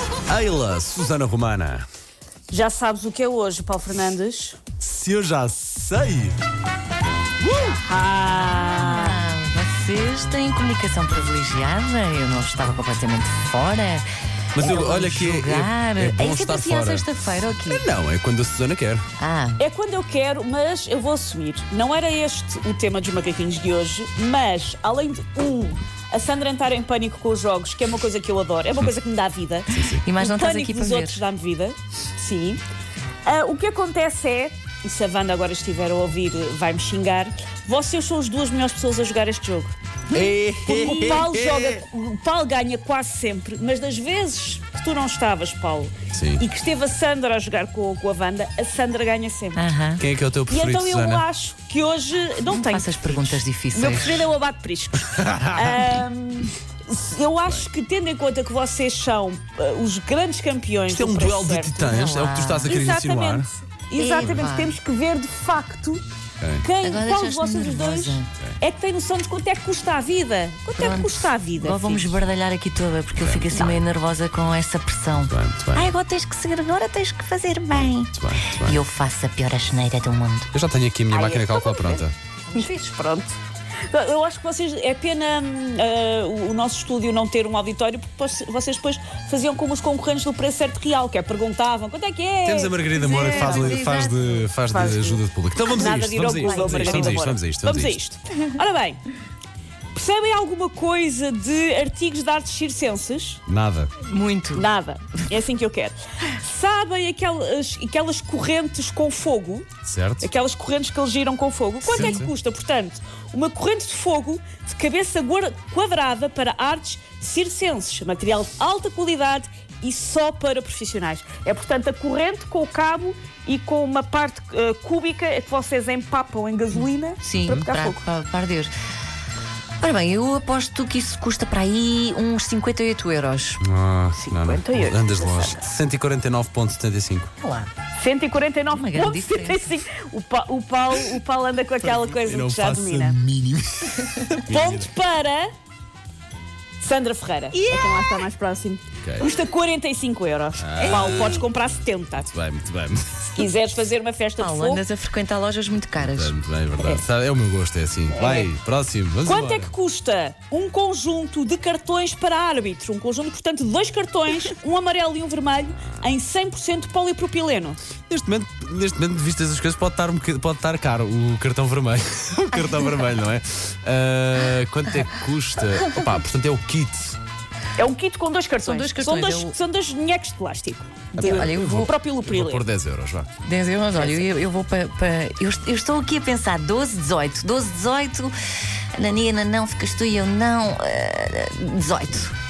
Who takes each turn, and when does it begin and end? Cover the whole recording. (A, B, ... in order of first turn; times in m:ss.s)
0:00.3-0:01.9 A
0:02.5-0:04.6 B
0:04.8-0:06.4 A
0:07.4-0:07.8 A
0:07.7-0:09.2 B
0:08.7-0:17.9 C
0:14.5-0:19.0 A
0:19.2-0:19.6 C
0:19.6-0:32.6 B
0:29.7-0:30.0 A
0:30.0-0:31.2 C
0:33.2-0:49.7 B
0:40.1-0:41.8 A
0:46.1-0:46.4 A
0:49.6-0:50.0 C
0:50.0-0:51.2 A
0:50.5-1:01.8 B
0:52.5-0:54.3 C
0:55.1-0:55.9 A
1:00.9-1:03.5 A
1:01.8-1:02.7 C
1:02.6-1:06.0 B
1:04.0-1:04.8 C
1:06.4-1:06.6 A
1:06.6-1:12.2 B
1:06.8-1:08.3 C
1:10.8-1:20.5 C
1:13.2-1:13.8 A
1:13.5-1:13.8 B
1:15.1-1:15.9 A
1:18.1-1:18.8 A
1:20.5-1:22.1 A
1:21.1-1:23.4 B
1:23.9-1:33.8 B
1:32.4-1:38.0 A
1:32.9-1:34.5 C
1:34.7-1:39.0 B
1:36.3-1:37.2 C
1:39.9-1:43.4 B
1:43.5-1:43.9 A
1:44.0-1:44.7 C
1:44.5-1:49.7 B
1:49.8-1:50.3 A
1:50.2-2:08.0 B
1:51.8-1:52.3 C
2:07.2-2:08.7 C
2:09.8-2:13.6 C
2:13.6-2:17.3 A
2:14.2-2:15.6 B
2:17.4-2:17.7 C
2:18.0-2:23.2 B
2:18.7-2:19.8 C
2:21.8-2:24.9 A
2:24.5-2:25.5 B
2:26.8-2:32.3 B
2:27.5-2:28.2 C
2:29.0-2:29.3 A
2:30.6-2:33.4 A
2:30.8-2:31.5 C
2:33.3-2:34.8 B
2:34.4-2:36.3 C
2:36.0-2:39.7 A
2:38.1-2:38.5 B
2:39.2-2:47.8 B
2:48.1-2:57.2 A
2:57.8-3:02.6 B
2:58.6-2:59.6 C
3:01.1-3:01.9 C
3:01.2-3:01.5 A
3:02.2-3:03.3 A
3:03.4-3:08.3 C
3:04.0-3:04.2 B
3:09.0-3:12.3 C